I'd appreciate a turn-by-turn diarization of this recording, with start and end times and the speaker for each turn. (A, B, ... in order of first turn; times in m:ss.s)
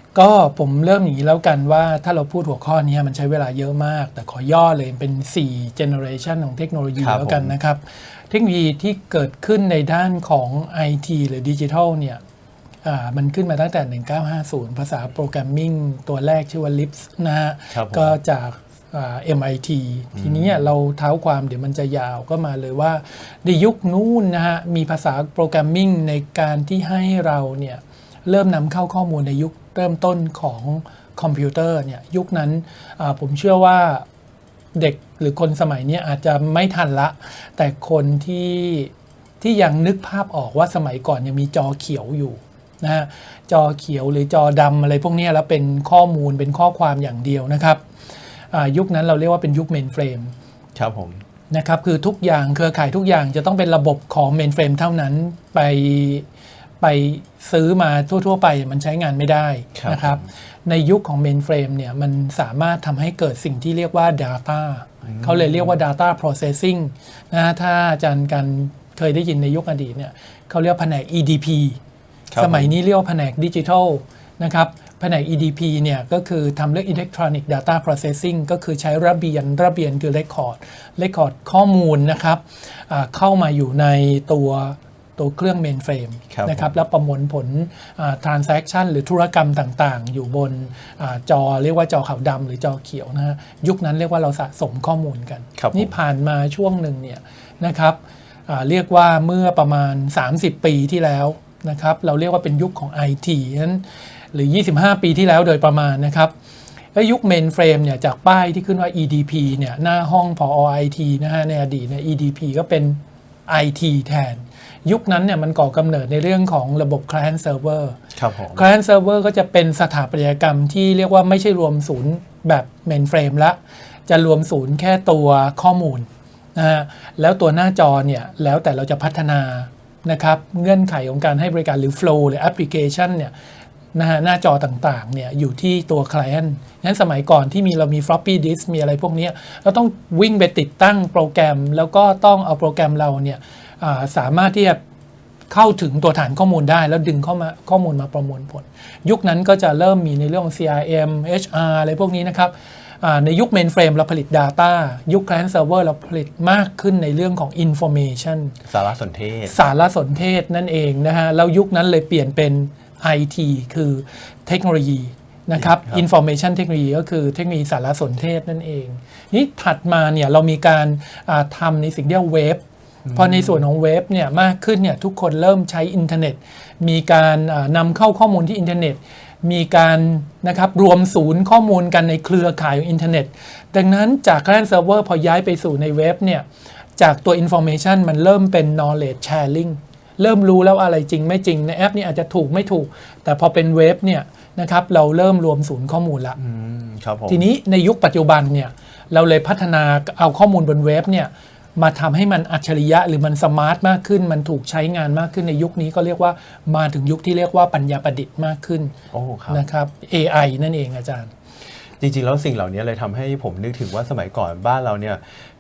0:00.2-0:12.2 A
0:07.0-0:07.6 B
0:12.8-0:34.0 A
0:17.7-0:18.2 B
0:20.2-0:20.6 B
0:34.8-0:47.8 A
0:48.5-0:50.3 A
0:50.8-0:51.2 B
0:51.5-0:56.3 A
0:56.8-1:11.8 A
0:59.8-1:00.3 B
1:05.0-1:05.8 B
1:12.3-1:12.8 B
1:12.4-1:46.3 A
1:26.3-1:26.8 B
1:35.6-1:36.0 B
1:47.0-1:58.0 A
1:58.2-1:58.6 B
1:58.5-2:13.3 A
2:13.9-2:24.8 A
2:25.5-2:38.6 A
2:38.7-2:39.6 B
2:39.5-3:06.5 A
2:45.6-2:46.0 B
2:53.1-2:53.6 B
3:07.0-3:16.4 A
3:16.4-3:17.4 B
3:17.3-3:28.9 A
3:29.1-3:29.6 B
3:29.5-3:31.3 A
3:32.0-3:35.2 B